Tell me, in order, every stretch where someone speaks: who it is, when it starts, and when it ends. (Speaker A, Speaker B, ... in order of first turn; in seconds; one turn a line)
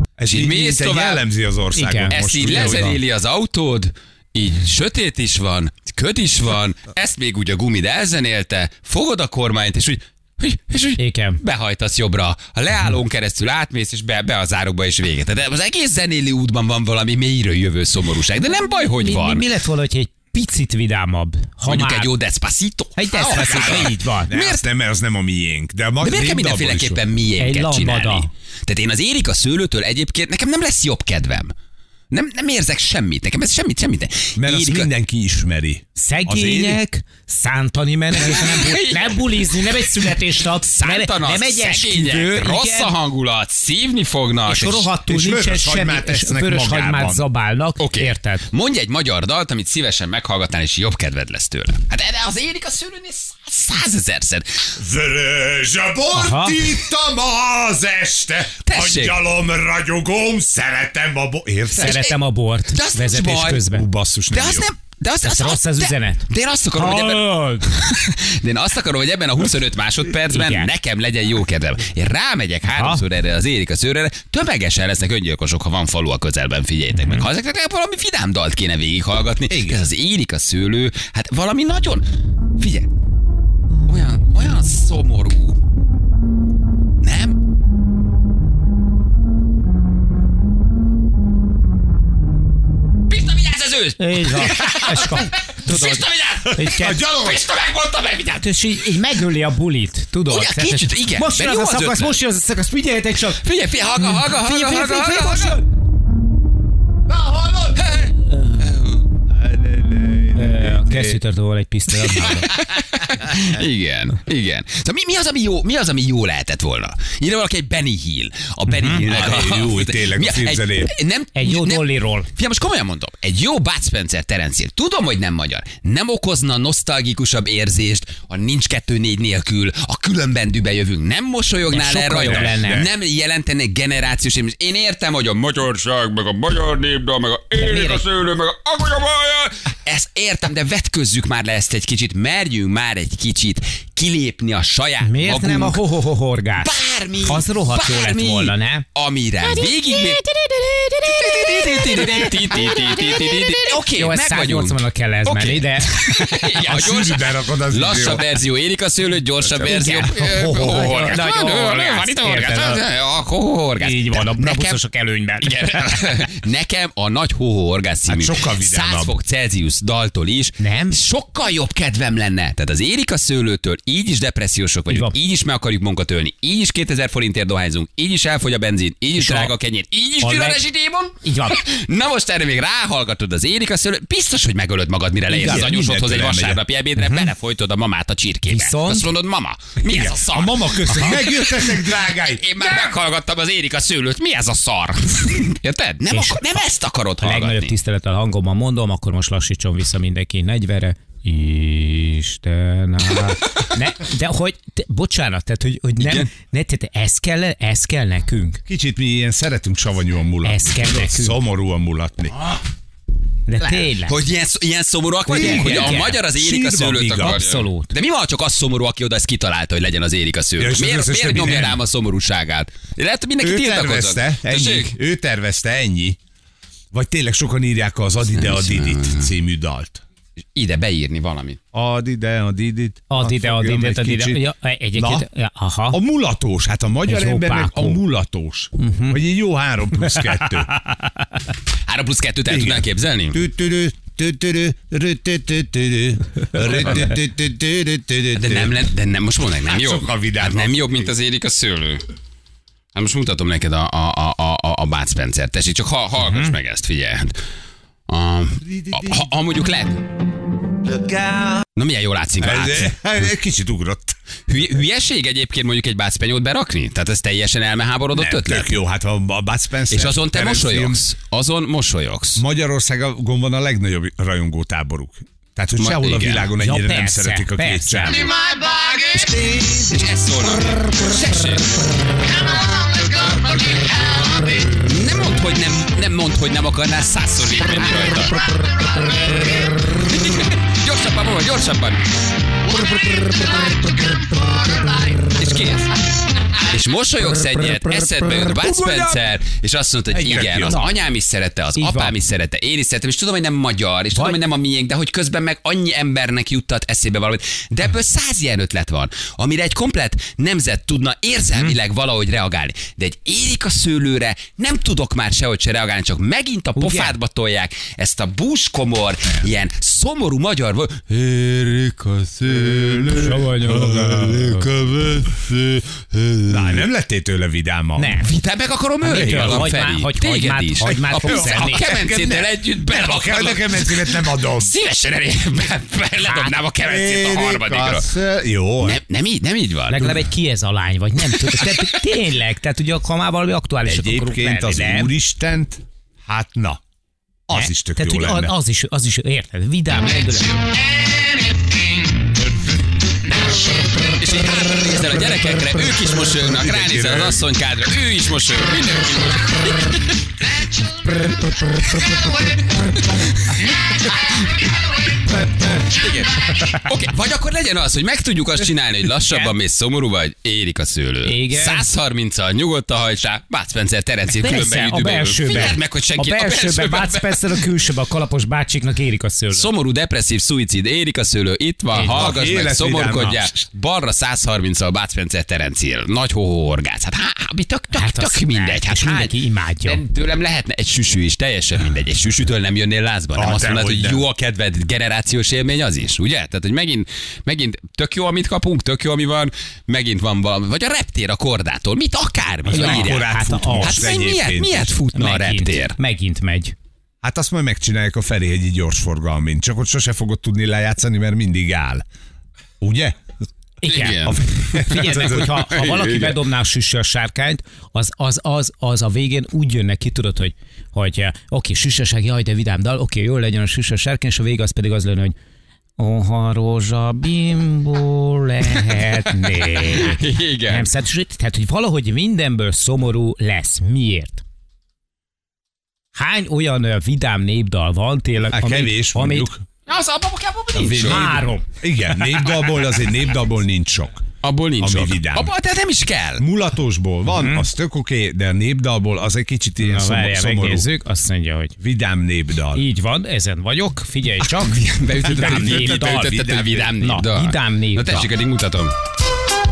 Speaker A: 0.2-3.0
Speaker B: 0.3-1.2
Speaker C: 1.7-2.2
Speaker B: 2.1-19.4
Speaker C: 11.0-11.4
Speaker C: 19.0-22.1
Speaker B: 21.6-24.6
Speaker C: 23.0-24.3
Speaker A: 23.1-27.0
Speaker B: 26.0-31.5
Speaker C: 27.4-28.3
Speaker B: 32.1-34.9
Speaker A: 34.4-36.8
Speaker C: 36.0-42.9
Speaker B: 38.1-44.9
Speaker C: 44.5-48.4
Speaker A: 45.0-47.2
Speaker B: 47.8-54.6
Speaker A: 54.8-62.0
Speaker C: 56.1-56.6
Speaker B: 58.6-59.2
Speaker B: 61.7-63.7
Speaker C: 61.8-63.9
Speaker A: 63.6-64.7
Speaker B: 64.3-82.1
Speaker C: 65.2-67.7
Speaker C: 70.3-70.7
Speaker C: 72.7-73.0
Speaker C: 77.0-77.2
Speaker A: 79.5-79.8
Speaker B: 82.6-82.9
Speaker B: 83.8-85.6
Speaker B: 87.0-87.4
Speaker B: 93.1-99.0
Speaker C: 94.0-97.1
Speaker A: 96.7-97.4
Speaker C: 98.3-103.4
Speaker B: 100.3-102.2
Speaker B: 103.2-105.6
Speaker C: 104.0-105.6
Speaker B: 107.4-109.0
Speaker A: 109.3-111.2
Speaker C: 110.3-112.5
Speaker B: 112.0-145.8
Speaker C: 118.7-119.0
Speaker A: 118.8-120.9
Speaker C: 121.3-122.3
Speaker C: 131.7-132.8
Speaker A: 132.2-132.9
Speaker C: 137.6-138.0
Speaker C: 145.0-146.7
Speaker B: 146.6-150.3
Speaker C: 147.2-148.8
Speaker C: 150.3-150.8
Speaker B: 150.8-164.8
Speaker C: 151.6-153.2
Speaker C: 153.7-156.4
Speaker A: 156.6-158.3
Speaker A: 159.6-161.1
Speaker C: 159.6-162.8
Speaker C: 163.8-166.0
Speaker B: 165.4-197.7
Speaker A: 168.1-169.1
Speaker C: 170.6-171.0
Speaker C: 174.9-175.2
Speaker C: 179.2-179.5
Speaker C: 180.2-180.6
Speaker C: 181.2-181.6
Speaker A: 185.3-186.6
Speaker C: 187.0-187.2
Speaker C: 188.4-189.1
Speaker A: 189.9-192.5
Speaker C: 196.1-196.6
Speaker C: 197.2-208.6
Speaker B: 206.0-206.3
Speaker A: 208.7-212.6
Speaker C: 210.4-211.4
Speaker C: 213.4-214.2
Speaker A: 213.6-213.9
Speaker B: 214.0-224.9
Speaker C: 215.3-216.2
Speaker A: 215.3-217.4
Speaker C: 217.2-217.9
Speaker A: 220.6-221.8
Speaker A: 223.4-226.2
Speaker A: 226.9-230.0
Speaker B: 228.3-229.3
Speaker B: 230.6-231.6
Speaker A: 231.7-235.3
Speaker C: 233.1-236.0
Speaker A: 235.9-240.8
Speaker C: 237.1-238.0
Speaker C: 238.8-239.2
Speaker C: 240.1-241.1
Speaker B: 241.9-243.4
Speaker A: 242.5-248.8
Speaker B: 248.3-252.0
Speaker A: 249.6-250.9
Speaker B: 252.9-257.4
Speaker C: 256.2-256.6
Speaker B: 258.1-260.0
Speaker A: 258.6-259.2
Speaker A: 260.9-261.6
Speaker B: 261.8-263.0
Speaker A: 262.4-264.1
Speaker B: 264.5-268.8
Speaker A: 268.1-271.0
Speaker B: 269.9-272.4
Speaker A: 272.4-278.3
Speaker B: 275.8-276.5
Speaker C: 276.6-278.3
Speaker B: 278.1-292.0
Speaker B: 292.6-295.9
Speaker B: 296.6-326.8
Speaker C: 297.8-298.3
Speaker A: 300.1-300.8
Speaker C: 300.6-300.9
Speaker C: 301.8-302.1
Speaker C: 316.7-317.2
Speaker C: 323.1-324.7
Speaker A: 326.5-328.1
Speaker C: 327.9-328.3
Speaker B: 328.2-338.1
Speaker C: 329.0-331.9
Speaker A: 329.1-329.7
Speaker A: 330.8-334.7
Speaker C: 336.2-336.6
Speaker A: 336.8-339.0
Speaker B: 338.8-340.2
Speaker C: 339.9-345.1
Speaker B: 341.3-341.9
Speaker A: 343.8-346.8
Speaker A: 347.5-348.5
Speaker C: 347.5-350.5
Speaker B: 350.1-351.1
Speaker B: 354.1-361.2
Speaker A: 356.7-357.4
Speaker C: 361.2-362.3
Speaker B: 361.7-377.6
Speaker C: 371.2-371.9
Speaker C: 374.3-379.7
Speaker B: 379.5-403.3
Speaker C: 381.9-382.4
Speaker A: 382.0-383.6
Speaker C: 387.9-390.0
Speaker A: 393.3-394.2
Speaker A: 402.7-404.9
Speaker C: 402.7-404.1
Speaker B: 403.8-405.9
Speaker C: 405.1-406.7
Speaker A: 407.2-412.0
Speaker A: 412.8-413.2
Speaker C: 413.8-425.3
Speaker B: 413.8-416.4
Speaker A: 414.2-415.6
Speaker C: 426.0-434.4
Speaker B: 429.6-430.9
Speaker C: 436.1-439.5
Speaker A: 438.5-439.6
Speaker B: 439.9-441.3
Speaker A: 440.7-444.2
Speaker C: 441.0-441.6
Speaker B: 442.4-442.7
Speaker B: 444.4-446.4
Speaker A: 444.8-445.5
Speaker A: 446.4-450.9
Speaker C: 447.3-447.7
Speaker C: 449.8-451.8
Speaker A: 451.8-452.8
Speaker C: 452.7-458.3
Speaker B: 454.4-458.9
Speaker A: 455.2-456.9